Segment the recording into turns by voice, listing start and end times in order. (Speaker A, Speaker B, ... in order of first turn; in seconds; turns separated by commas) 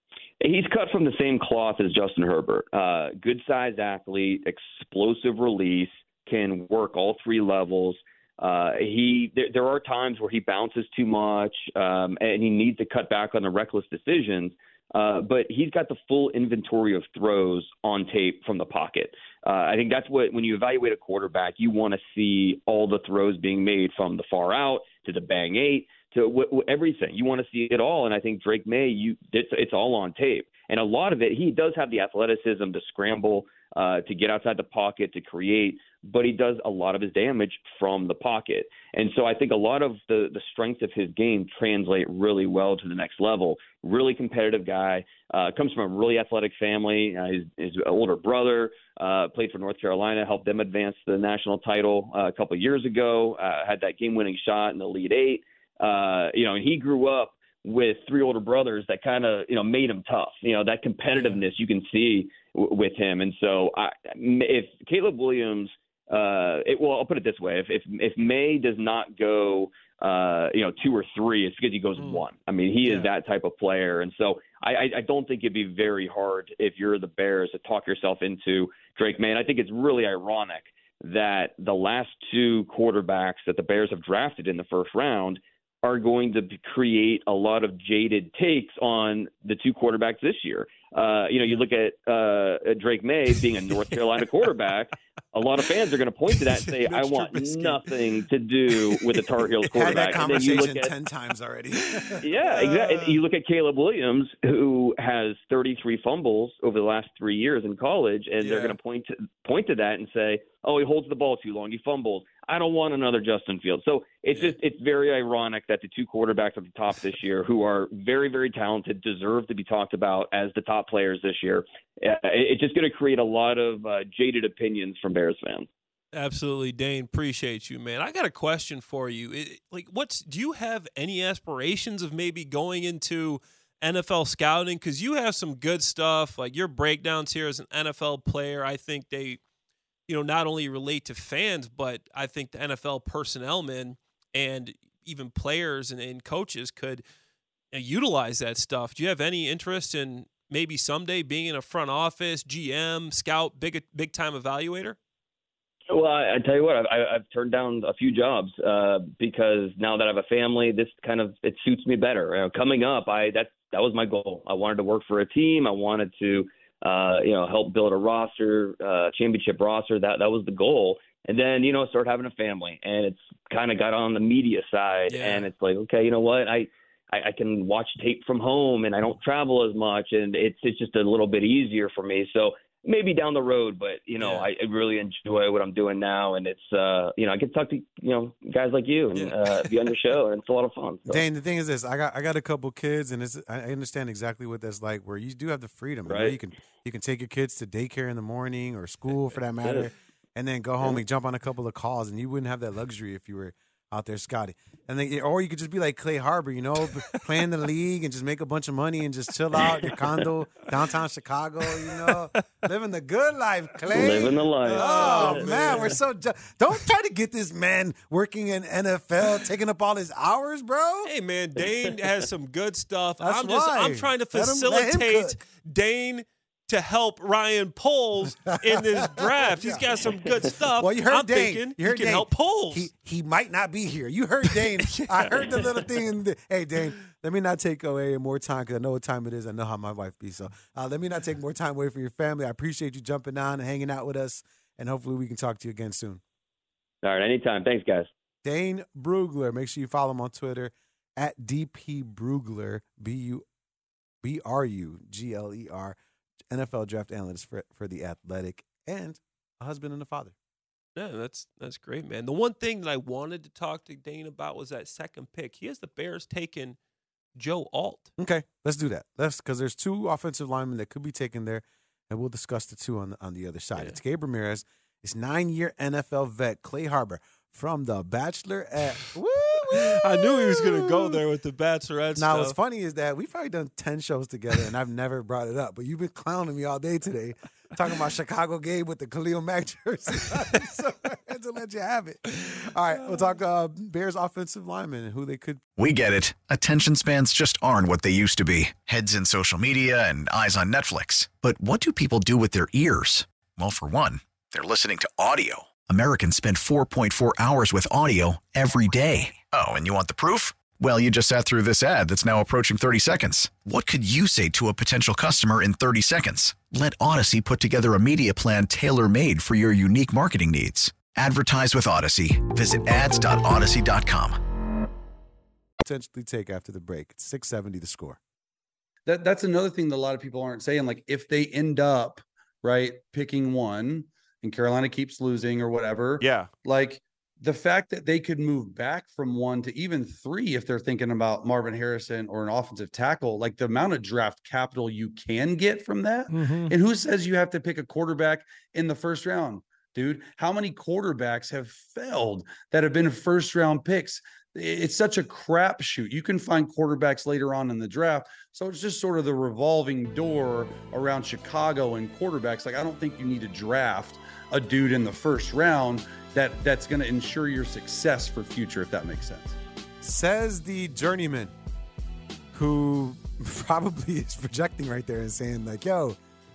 Speaker A: 0.4-100.9, Speaker B: 72.0-72.2, Speaker B: 72.8-73.1, Speaker B: 96.3-97.9, Speaker B: 98.7-100.3, Speaker C: 99.7-102.2, Speaker B: 101.8-103.2, Speaker A: 102.2-125.7, Speaker B: 108.4-108.8, Speaker B: 126.1-139.4, Speaker B: 140.1-147.0, Speaker B: 147.7-155.0, Speaker A: 155.9-191.2, Speaker B: 175.1-175.5, Speaker B: 184.2-184.5, Speaker B: 189.1-189.9, Speaker C: 191.1-221.1, Speaker A: 196.1-196.4, Speaker B: 206.8-207.2, Speaker B: 209.6-210.0, Speaker B: 211.9-212.4, Speaker A: 213.9-215.9, Speaker B: 214.6-216.0, Speaker B: 221.0-232.9, Speaker C: 223.2-225.4, Speaker C: 228.4-230.0, Speaker C: 230.8-246.2, Speaker B: 234.8-235.9, Speaker A: 247.0-248.1, Speaker C: 248.4-253.4, Speaker C: 254.2-256.0, Speaker C: 256.5-260.3, Speaker B: 260.9-266.8, Speaker B: 267.4-268.1, Speaker C: 268.2-281.2, Speaker B: 279.7-282.6, Speaker C: 282.1-295.6, Speaker D: 295.8-324.4, Speaker C: 325.8-328.2, Speaker E: 329.1-369.6, Speaker C: 370.0-371.5, Speaker C: 372.5-376.2